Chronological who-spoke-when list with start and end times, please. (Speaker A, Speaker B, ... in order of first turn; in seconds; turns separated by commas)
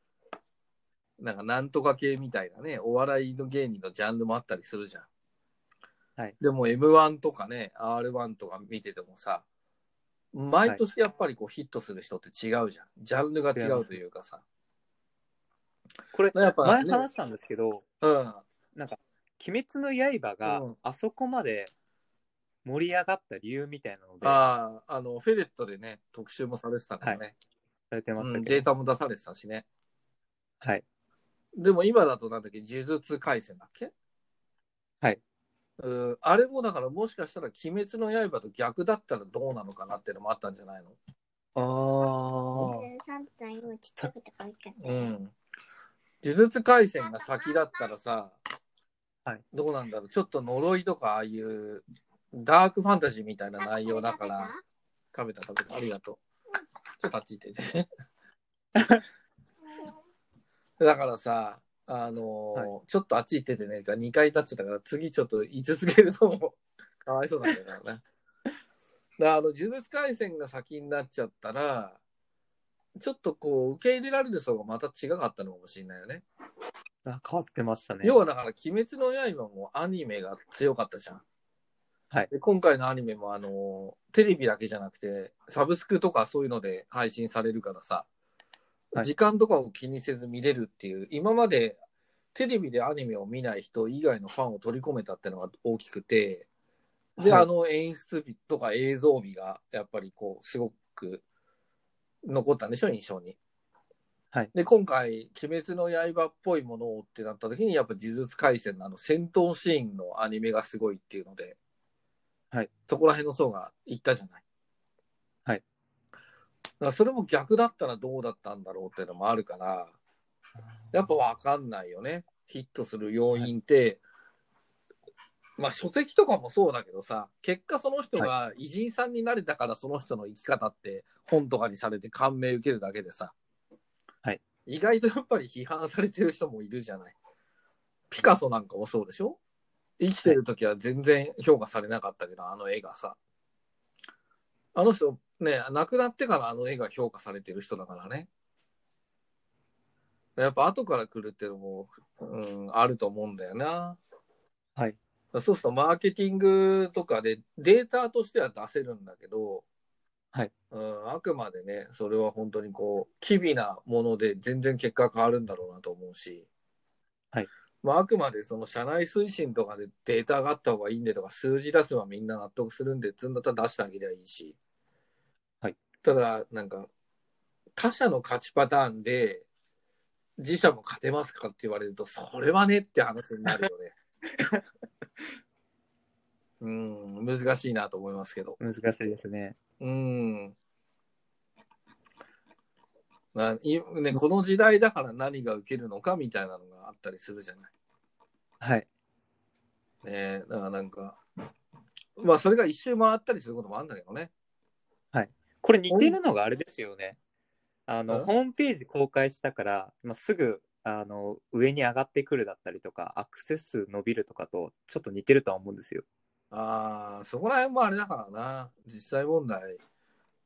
Speaker A: 1.2-5.1, Speaker A: 6.4-9.4, Speaker A: 10.3-14.4, Speaker B: 13.5-13.9, Speaker B: 16.1-17.9, Speaker A: 16.3-17.0, Speaker A: 18.0-18.4, Speaker B: 18.8-21.7, Speaker A: 20.5-20.7, Speaker B: 22.6-24.4, Speaker A: 24.2-27.4, Speaker B: 27.9-28.6, Speaker A: 28.2-29.6, Speaker A: 31.5-33.9, Speaker A: 35.8-41.0, Speaker A: 41.5-42.8, Speaker C: 42.6-45.1, Speaker A: 44.8-45.3, Speaker A: 46.2-48.4, Speaker C: 47.0-47.8, Speaker A: 49.5-54.5, Speaker C: 53.6-54.6, Speaker A: 55.1-56.2, Speaker A: 57.0-57.9, Speaker B: 58.8-59.0, Speaker A: 60.8-68.0, Speaker A: 69.2-72.0, Speaker A: 73.0-76.2, Speaker B: 77.0-78.2, Speaker A: 78.0-81.2, Speaker A: 82.3-88.0, Speaker A: 88.9-91.8, Speaker A: 92.3-96.5, Speaker A: 97.2-101.2, Speaker B: 97.2-97.5, Speaker A: 102.2-103.4, Speaker A: 104.5-111.6, Speaker A: 112.9-114.4, Speaker A: 116.8-120.0, Speaker A: 120.9-124.0, Speaker A: 125.6-133.3, Speaker A: 134.7-137.1, Speaker A: 138.1-139.4, Speaker A: 140.0-143.2, Speaker A: 144.8-148.3, Speaker A: 150.4-154.0, Speaker A: 155.3-159.6, Speaker A: 160.7-166.5, Speaker A: 167.8-174.6, Speaker A: 176.0-176.9, Speaker A: 177.8-179.4, Speaker A: 180.4-183.9, Speaker B: 184.4-184.6, Speaker A: 186.6-188.6, Speaker B: 188.6-189.6, Speaker A: 189.8-190.6, Speaker A: 193.3-197.7, Speaker B: 198.6-198.9, Speaker A: 200.0-201.2, Speaker A: 202.2-204.3, Speaker B: 205.1-207.2, Speaker A: 205.9-206.2, Speaker B: 207.9-216.0, Speaker A: 216.5-219.8